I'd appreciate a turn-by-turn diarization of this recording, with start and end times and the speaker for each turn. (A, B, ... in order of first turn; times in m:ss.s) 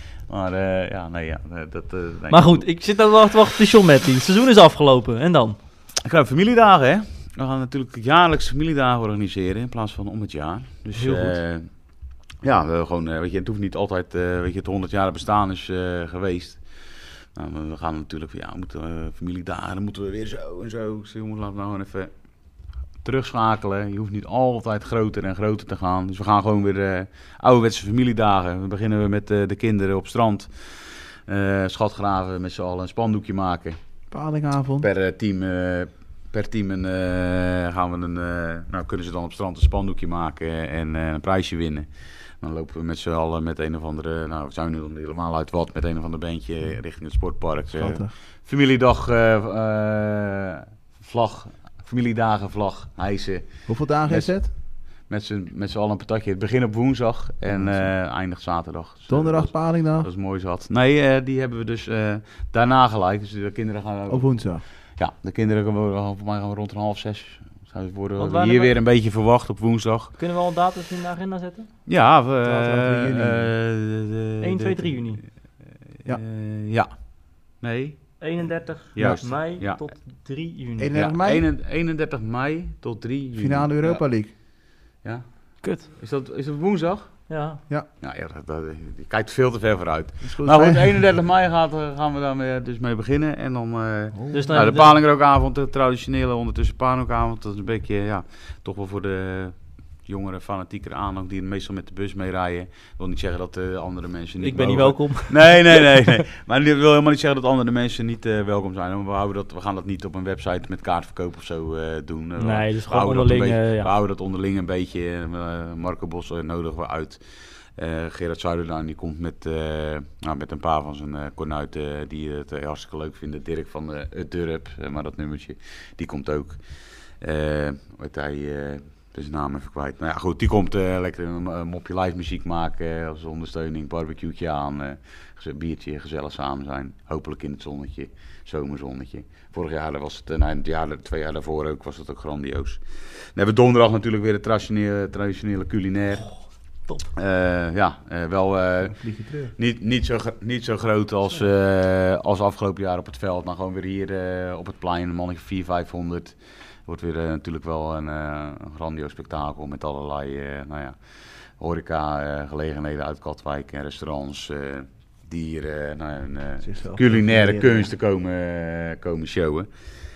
0:00.3-0:02.6 A
0:02.3-0:05.6 B
0:06.0-0:11.7 A
0:10.9-0:11.4 B
0:12.4-0:22.1 A
0:23.0-0:30.8 A
0:31.3-0:33.8 A
0:34.1-0:34.9 C
0:34.8-0:41.9 A
0:42.4-1:10.2 A
0:47.7-0:48.1 C
0:53.7-0:54.5 C
0:57.4-0:57.9 C
0:59.1-1:00.1 C
1:04.1-1:04.6 C
1:08.2-1:08.7 B
1:10.2-1:11.7 B
1:11.8-1:15.0 A
1:12.4-1:13.5 C
1:14.4-1:15.2 B
1:16.0-1:18.2 A
1:18.2-1:20.9 B
1:18.9-1:19.8 A
1:19.0-1:19.3 C
1:20.8-1:21.5 C
1:20.9-1:24.3 A
1:23.4-1:24.3 C
1:25.0-1:27.4 A
1:25.6-1:25.9 B
1:27.3-1:27.6 B
1:28.0-1:57.2 A
1:30.2-1:30.8 C
1:34.1-1:34.5 C
1:34.3-1:35.0 B
1:44.4-1:46.2 B
1:52.4-1:53.9 B
1:57.8-2:06.6 A
2:07.2-2:22.8 A
2:23.3-2:26.4 A
2:27.1-2:29.0 A
2:28.8-2:29.5 C
2:29.5-2:41.0 A
2:41.6-2:49.7 A
2:46.6-2:47.9 C